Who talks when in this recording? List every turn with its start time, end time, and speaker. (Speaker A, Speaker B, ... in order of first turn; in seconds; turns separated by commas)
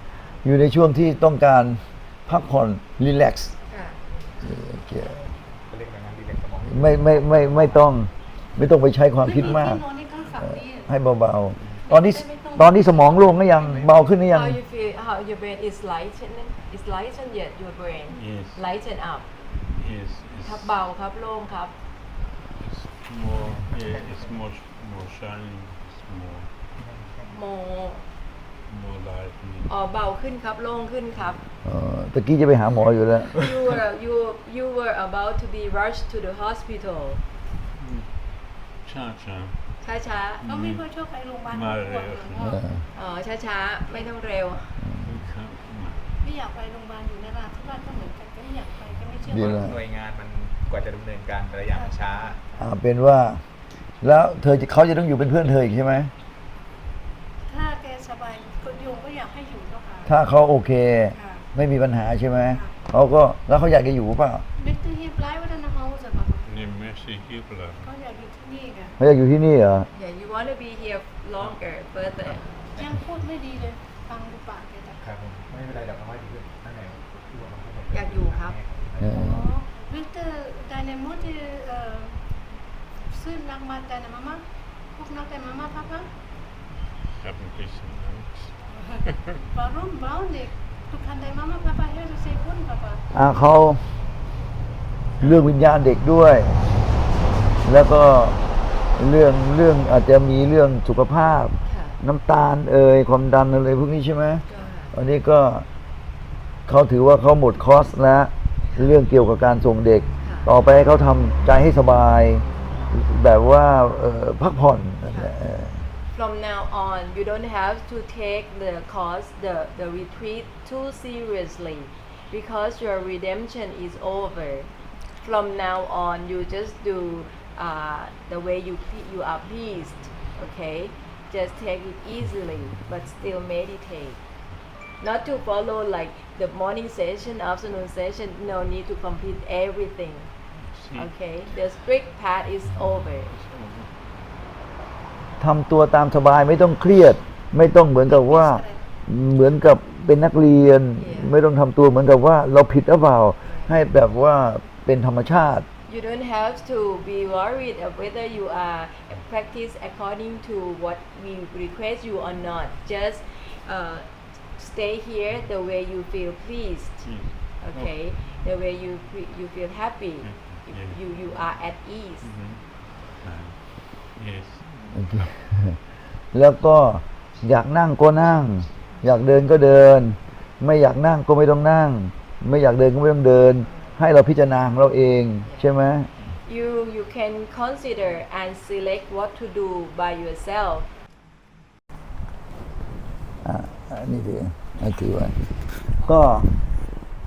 Speaker A: 0.4-3.5, Speaker B: 3.7-4.0, Speaker A: 4.4-5.2, Speaker C: 5.7-7.8, Speaker A: 6.7-9.8, Speaker D: 9.2-10.9, Speaker A: 10.8-14.6, Speaker D: 11.9-13.1, Speaker C: 13.5-14.0, Speaker B: 14.3-19.2, Speaker E: 18.1-18.6, Speaker E: 19.7-20.7, Speaker B: 20.4-21.8, Speaker E: 22.6-26.5, Speaker C: 23.4-24.3, Speaker C: 26.8-27.4, Speaker B: 27.3-28.0, Speaker E: 28.7-29.7, Speaker B: 29.7-31.4, Speaker A: 31.6-33.3, Speaker B: 33.4-37.2, Speaker E: 37.8-39.8, Speaker B: 39.8-40.4, Speaker E: 40.4-40.8, Speaker D: 40.5-42.6, Speaker E: 41.5-42.6, Speaker A: 42.4-42.7, Speaker B: 43.0-44.8, Speaker A: 44.8-45.1, Speaker E: 45.0-46.1, Speaker D: 46.2-49.7, Speaker A: 49.3-49.8, Speaker C: 49.5-52.4, Speaker A: 52.6-53.4, Speaker A: 54.0-56.1, Speaker D: 57.5-60.1, Speaker A: 60.0-64.4, Speaker D: 61.1-61.4, Speaker D: 64.6-66.5, Speaker E: 66.5-67.9, Speaker D: 67.8-69.0, Speaker A: 69.0-69.9, Speaker B: 69.9-72.5, Speaker D: 72.8-75.0, Speaker C: 75.0-79.2, Speaker B: 77.9-78.6, Speaker A: 79.0-79.5, Speaker D: 79.1-82.3, Speaker D: 83.0-86.1, Speaker E: 87.2-89.4, Speaker D: 88.8-93.0, Speaker A: 93.1-93.8, Speaker A: 95.2-96.6, Speaker A: 97.7-98.4, Speaker A: 99.0-105.7, Speaker B: 101.7-102.0, Speaker B: 104.5-104.9, Speaker A: 106.7-115.8, Speaker B: 110.2-110.5, Speaker B: 116.1-134.2, Speaker B: 135.0-140.3, Speaker E: 140.5-141.1, Speaker B: 140.9-143.3, Speaker E: 143.3-143.9, Speaker A: 145.4-155.7, Speaker D: 148.0-148.8, Speaker B: 151.0-151.3, Speaker B: 153.4-153.8, Speaker B: 155.9-172.3, Speaker E: 167.0-167.9, Speaker E: 170.2-171.0, Speaker E: 172.2-174.8, Speaker A: 174.9-175.8, Speaker A: 176.3-186.1, Speaker B: 185.4-185.7, Speaker B: 186.4-190.9, Speaker A: 193.4-195.4, Speaker A: 195.9-196.5